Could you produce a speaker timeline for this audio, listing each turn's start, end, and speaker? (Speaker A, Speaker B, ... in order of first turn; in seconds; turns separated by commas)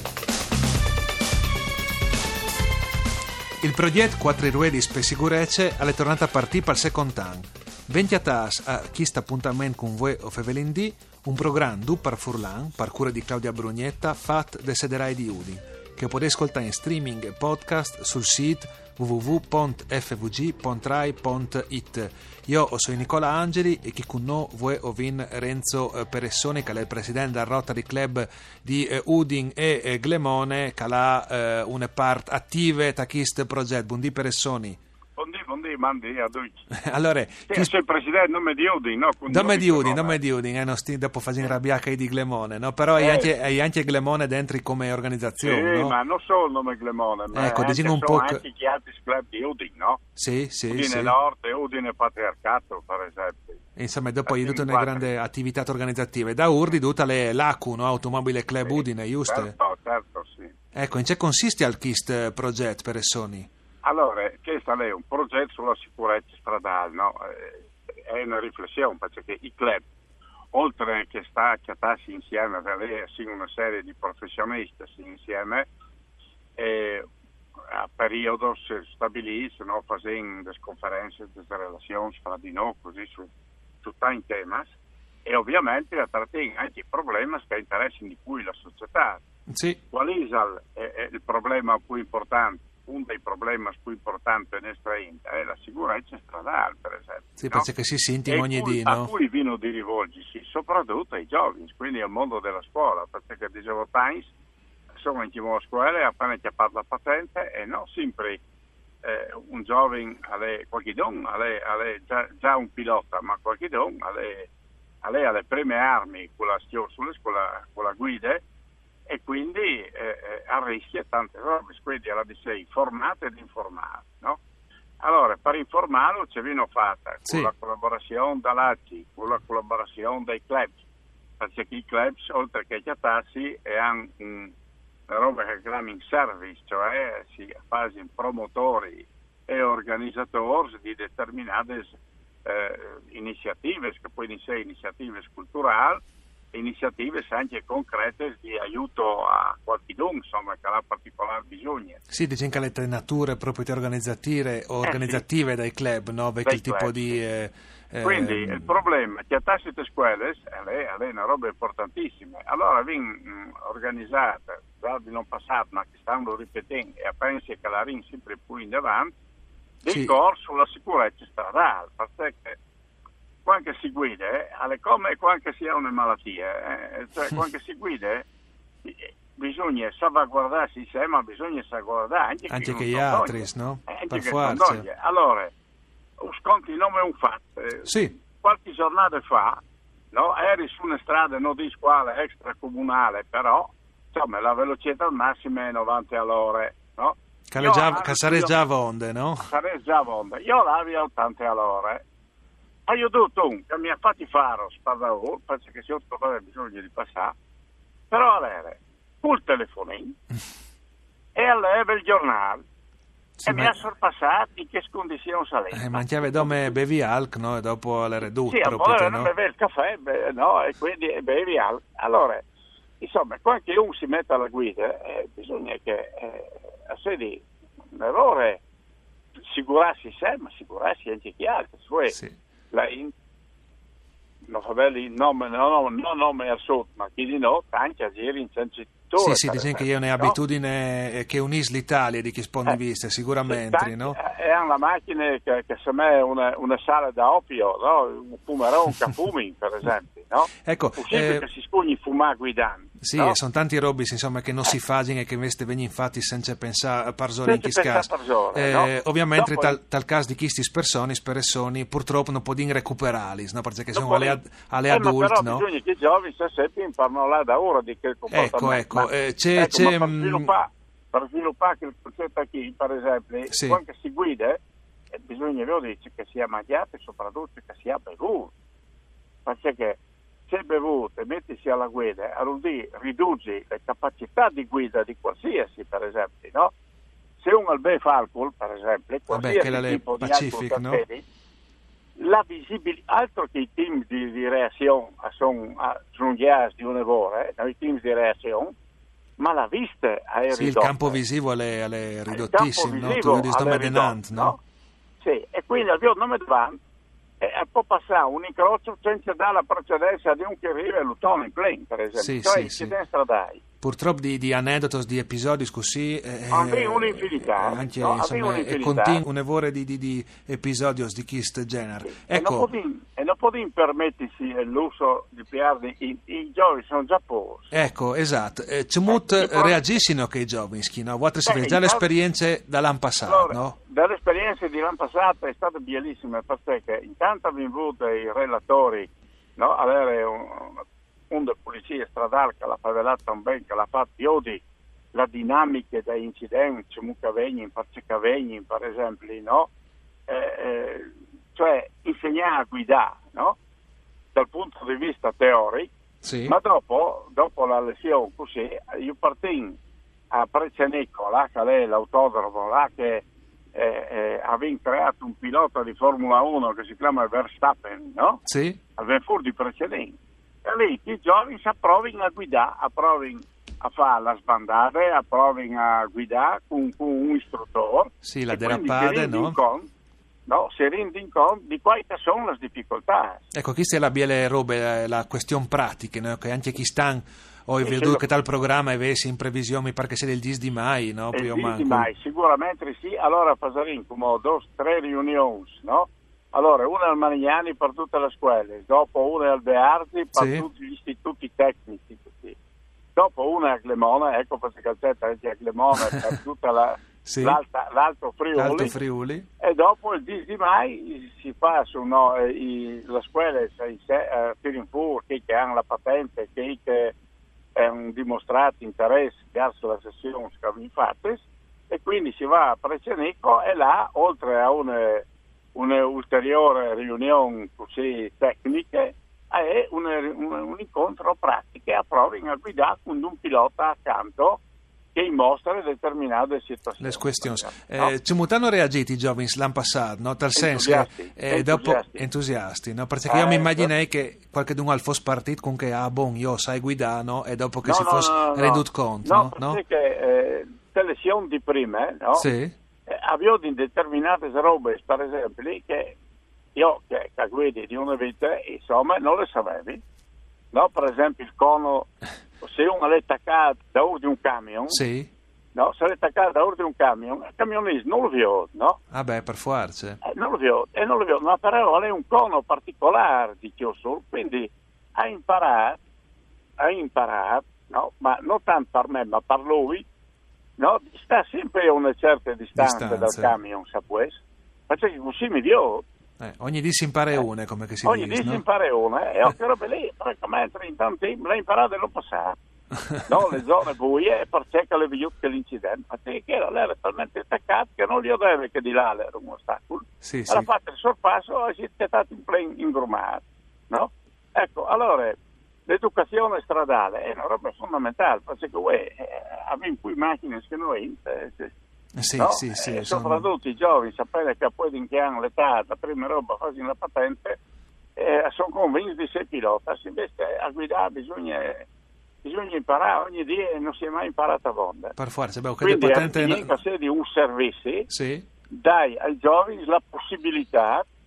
Speaker A: 3.6-34.8, Speaker B: 35.2-36.7, Speaker A: 36.7-37.7, Speaker B: 37.5-40.2, Speaker A: 39.3-46.0, Speaker B: 43.0-43.3, Speaker B: 45.4-50.0, Speaker A: 47.3-48.4, Speaker A: 50.2-51.1, Speaker B: 50.7-53.6, Speaker A: 53.8-59.5, Speaker B: 54.3-55.1, Speaker B: 58.7-60.5, Speaker A: 60.8-63.5, Speaker B: 63.8-69.8, Speaker B: 70.5-75.7, Speaker B: 76.6-77.0, Speaker B: 77.7-83.3, Speaker B: 83.8-84.7, Speaker B: 85.2-89.2, Speaker A: 89.5-89.8, Speaker B: 89.9-97.7, Speaker A: 97.4-99.1, Speaker B: 98.3-104.3, Speaker B: 105.0-108.4, Speaker B: 109.0-114.5, Speaker B: 115.0-118.4, Speaker B: 119.1-124.4, Speaker B: 125.0-130.8, Speaker A: 127.3-127.5, Speaker B: 131.4-134.5, Speaker B: 135.1-146.0, Speaker B: 146.5-152.0, Speaker A: 152.1-158.7, Speaker B: 154.8-155.2, Speaker B: 156.4-157.2, Speaker B: 158.0-169.1, Speaker B: 169.8-172.6, Speaker A: 169.9-170.2, Speaker B: 173.4-178.2, Speaker B: 178.8-185.5, Speaker A: 182.5-184.9, Speaker B: 186.2-189.6, Speaker A: 187.8-188.2, Speaker B: 190.1-198.6, Speaker A: 197.5-199.5, Speaker B: 199.5-202.0, Speaker B: 202.9-207.3, Speaker B: 208.1-210.1, Speaker B: 211.3-212.6, Speaker A: 213.4-213.8, Speaker B: 213.5-216.8, Speaker A: 215.7-219.3, Speaker B: 218.4-222.4, Speaker B: 223.0-228.6, Speaker B: 229.5-232.2, Speaker B: 232.7-233.1, Speaker B: 234.5-240.4, Speaker A: 239.2-244.2, Speaker B: 243.5-253.4, Speaker A: 250.6-251.4, Speaker A: 253.0-265.6, Speaker B: 257.4-259.8, Speaker B: 263.9-274.6, Speaker A: 268.3-270.5, Speaker A: 273.5-273.8, Speaker B: 275.2-278.5, Speaker B: 279.4-286.7, Speaker B: 287.4-291.2, Speaker A: 289.3-291.0, Speaker B: 292.2-298.7, Speaker B: 299.4-301.2, Speaker A: 300.5-304.6, Speaker B: 302.3-304.6, Speaker B: 305.2-306.8, Speaker B: 307.4-313.6, Speaker A: 312.2-312.9, Speaker A: 313.8-322.7, Speaker B: 316.5-319.2, Speaker B: 322.1-327.7, Speaker A: 327.7-333.8, Speaker B: 329.1-329.8, Speaker B: 331.4-332.1, Speaker B: 333.3-349.7, Speaker B: 350.3-353.6, Speaker B: 354.3-355.9, Speaker A: 356.2-356.6, Speaker B: 356.5-359.8, Speaker B: 360.3-368.4, Speaker A: 368.5-368.8, Speaker B: 369.0-379.9, Speaker A: 378.2-379.6, Speaker B: 380.5-383.5, Speaker A: 383.5-392.1, Speaker B: 387.8-388.3, Speaker B: 391.3-402.6, Speaker A: 400.4-400.7, Speaker B: 403.2-408.9, Speaker A: 407.2-407.6, Speaker A: 408.6-409.5, Speaker B: 409.6-417.1, Speaker B: 417.8-434.6, Speaker B: 435.1-438.1, Speaker A: 437.0-449.8, Speaker B: 440.6-442.2, Speaker B: 443.3-443.9, Speaker B: 447.8-452.5, Speaker A: 452.4-452.7, Speaker B: 453.1-456.2, Speaker B: 456.8-460.0, Speaker B: 460.7-462.1, Speaker B: 462.6-465.0, Speaker A: 464.9-465.3, Speaker B: 465.7-469.0, Speaker A: 469.1-470.2, Speaker B: 470.2-476.0, Speaker B: 476.8-480.1, Speaker B: 480.8-486.1, Speaker A: 482.8-483.6, Speaker A: 486.4-488.6, Speaker B: 488.0-492.5, Speaker B: 493.3-505.4, Speaker A: 500.2-500.7, Speaker B: 505.9-511.7, Speaker A: 512.2-513.5, Speaker B: 512.4-517.6, Speaker B: 518.2-521.9, Speaker B: 522.4-525.2, Speaker A: 525.2-526.8, Speaker B: 525.8-528.1, Speaker A: 528.1-528.5, Speaker B: 528.7-531.1